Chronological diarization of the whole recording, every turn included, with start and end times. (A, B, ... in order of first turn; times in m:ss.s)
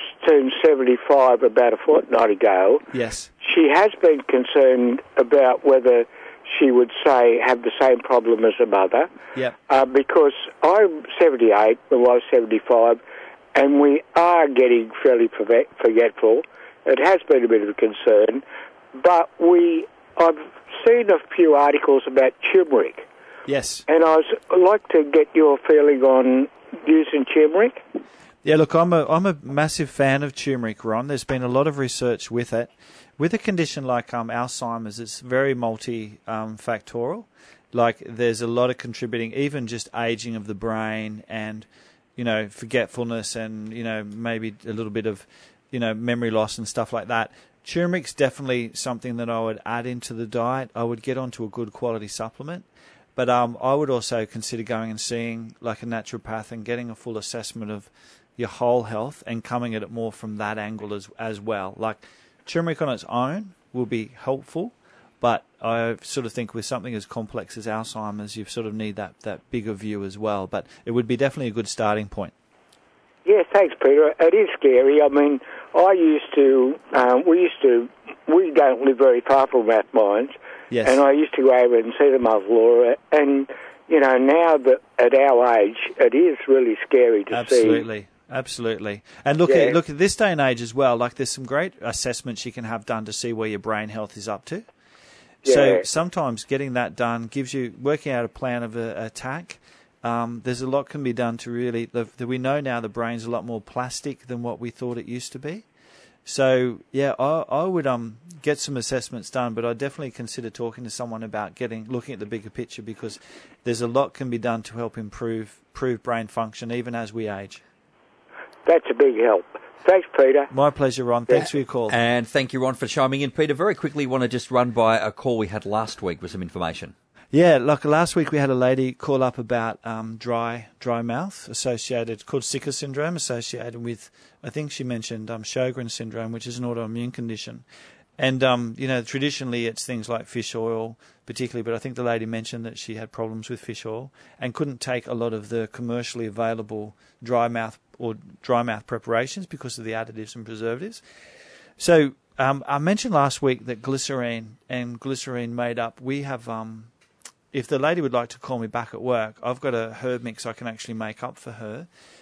0:00.2-0:02.8 A
0:02.9-0:03.3 B
0:03.4-0:09.1 A
0:09.7-0:13.0 A
0:13.5-0:18.4 A
0:18.9-0:23.0 A
0:23.5-0:23.8 B
0:23.9-0:27.8 A
0:28.4-1:12.3 B
1:13.2-1:27.8 A
1:20.7-1:21.0 B
1:27.3-1:34.6 B
1:29.4-1:29.8 A
1:35.4-1:45.6 B
1:35.4-1:35.8 A
1:46.2-1:57.6 B
1:58.6-2:00.5 A
2:00.5-2:02.0 B
2:01.3-2:06.9 C
2:07.3-2:17.6 B
2:18.2-2:31.0 B
2:31.8-2:36.9 B
2:37.5-2:41.9 B